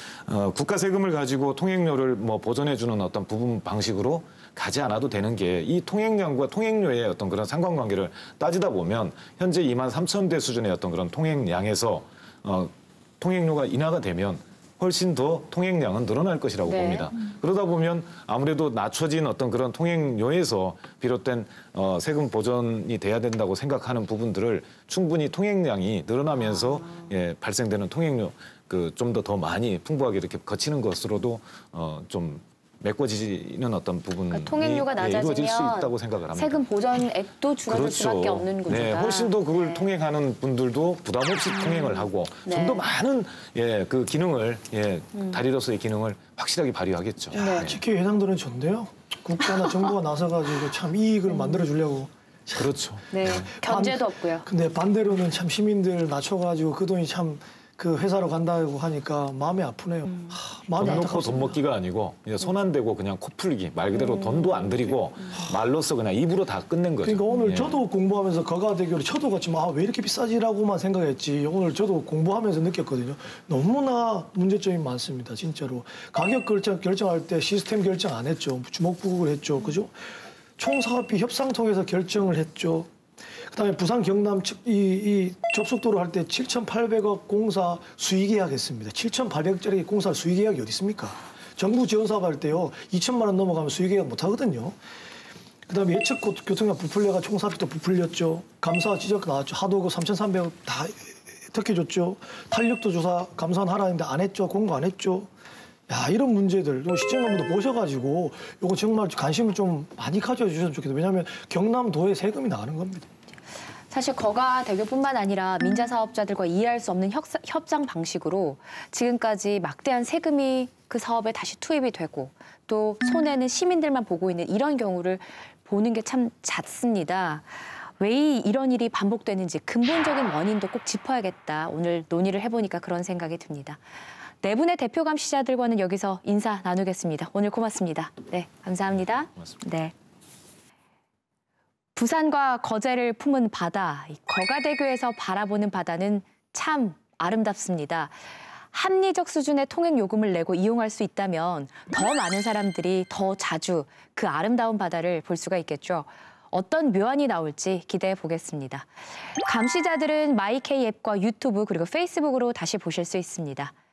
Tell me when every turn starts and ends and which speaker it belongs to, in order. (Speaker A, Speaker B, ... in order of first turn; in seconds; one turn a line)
Speaker A: 0.2-36.6
Speaker B: 16.7-17.1
Speaker B: 26.4-27.1
Speaker B: 34.3-39.9
Speaker A: 37.7-47.8
Speaker B: 41.5-42.8
Speaker B: 45.1-45.4
Speaker C: 47.3-61.6
Speaker B: 47.3-47.7
Speaker B: 51.3-51.6
Speaker A: 52.6-53.5
Speaker B: 53.1-54.5
Speaker B: 60.1-61.1
Speaker A: 60.8-67.8
Speaker B: 64.0-65.3
Speaker C: 67.0-82.9
Speaker C: 83.5-94.8
Speaker C: 95.7-105.3
Speaker C: 105.9-113.1
Speaker B: 113.9-133.8
Speaker B: 134.4-139.9
Speaker B: 142.0-148.2
Speaker B: 148.7-158.9
Speaker B: 159.4-163.7